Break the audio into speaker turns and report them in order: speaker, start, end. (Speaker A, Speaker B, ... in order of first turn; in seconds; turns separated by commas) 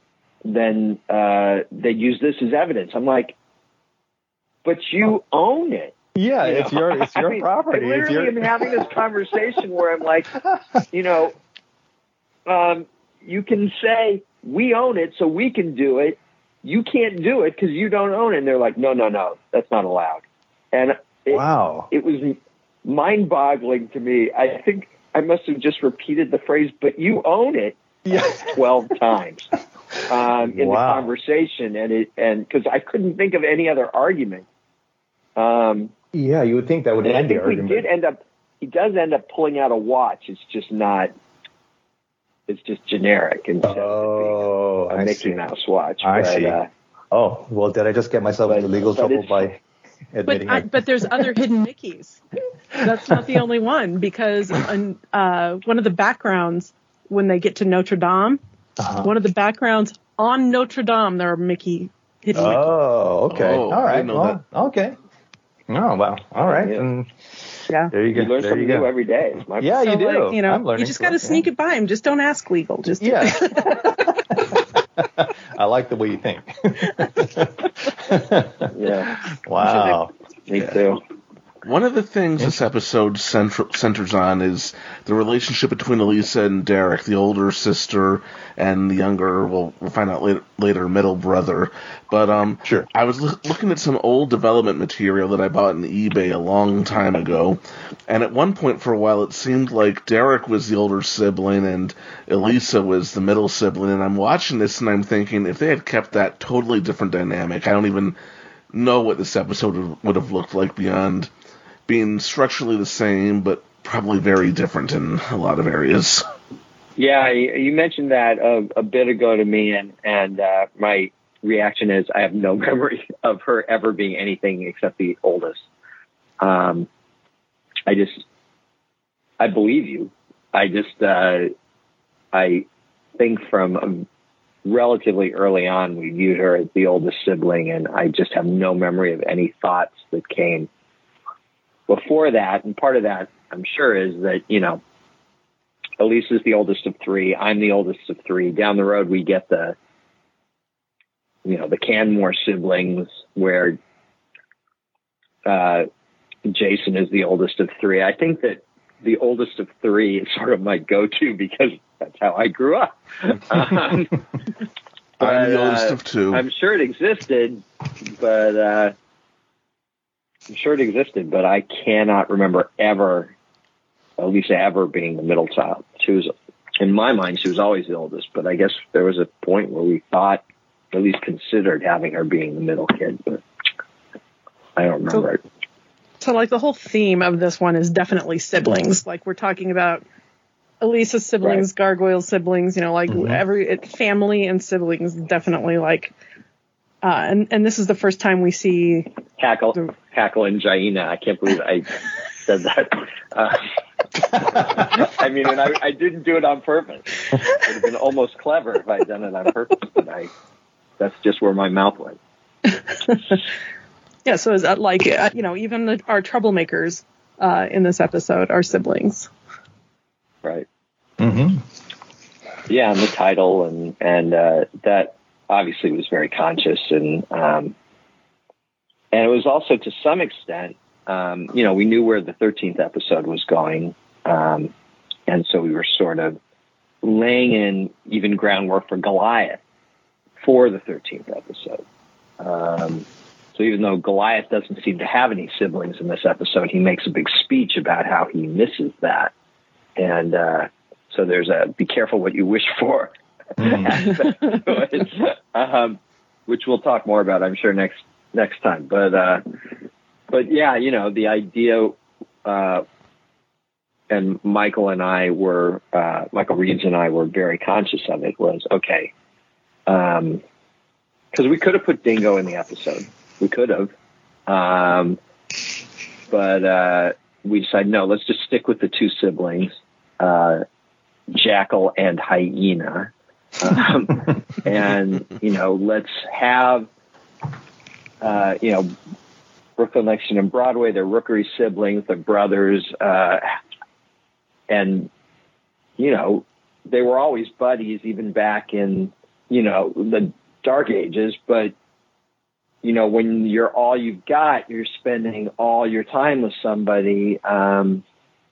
Speaker A: 0.4-3.4, Speaker A: 4.6-10.4, Speaker B: 6.1-8.8, Speaker A: 10.9-11.3, Speaker A: 12.5-29.5, Speaker B: 21.3-21.9, Speaker B: 28.0-28.6, Speaker A: 30.1-34.5, Speaker B: 30.4-31.1, Speaker A: 35.4-35.9, Speaker B: 36.1-37.9, Speaker A: 37.0-41.1, Speaker A: 42.5-46.7, Speaker B: 43.6-45.4, Speaker B: 46.0-46.6, Speaker B: 47.1-49.6, Speaker A: 48.5-49.5, Speaker B: 50.1-51.3, Speaker C: 50.2-52.2, Speaker B: 52.7-53.4, Speaker C: 52.8-58.4, Speaker B: 58.8-59.1, Speaker C: 59.0-62.7, Speaker B: 62.3-65.0, Speaker D: 63.3-64.4, Speaker B: 65.7-67.1, Speaker A: 66.4-66.8, Speaker B: 67.9-68.9, Speaker A: 68.1-69.9, Speaker B: 69.6-71.5, Speaker C: 69.8-74.4, Speaker B: 73.0-74.4, Speaker B: 75.0-78.7, Speaker A: 78.7-79.1, Speaker B: 79.4-80.1, Speaker C: 79.6-80.0, Speaker A: 80.5-81.0, Speaker D: 81.6-108.2, Speaker D: 108.7-111.3, Speaker D: 111.9-116.2, Speaker A: 117.0-125.6, Speaker A: 126.4-126.9, Speaker A: 127.9-128.2, Speaker A: 129.4-131.5, Speaker A: 132.3-132.7, Speaker A: 133.2-134.1, Speaker A: 134.7-140.7, Speaker A: 141.9-144.8, Speaker A: 146.0-149.8, Speaker A: 151.4-153.8, Speaker A: 155.4-155.9, Speaker A: 156.4-164.2, Speaker D: 165.2-166.4, Speaker A: 165.2-168.9, Speaker A: 170.5-173.3, Speaker A: 174.2-183.4, Speaker A: 184.8-185.4, Speaker C: 186.2-190.0, Speaker C: 190.8-196.1, Speaker B: 193.1-193.4, Speaker C: 197.0-199.1, Speaker A: 199.4-203.6, Speaker A: 204.4-210.3, Speaker A: 211.0-212.2, Speaker C: 212.9-213.4, Speaker C: 214.2-219.3, Speaker B: 221.2-221.6, Speaker A: 222.7-227.7, Speaker A: 229.1-234.7, Speaker A: 235.3-236.4, Speaker A: 237.0-239.6, Speaker A: 240.4-241.8, Speaker A: 242.4-249.3, Speaker A: 250.0-259.4, Speaker B: 253.6-254.1, Speaker A: 260.3-262.8, Speaker A: 264.1-269.1, Speaker A: 269.9-270.4, Speaker A: 271.3-273.9, Speaker A: 274.5-275.2, Speaker A: 276.3-280.6, Speaker A: 281.3-286.9, Speaker A: 288.2-288.9, Speaker A: 289.8-293.5, Speaker A: 294.7-295.1, Speaker A: 296.0-301.7, Speaker A: 302.8-308.0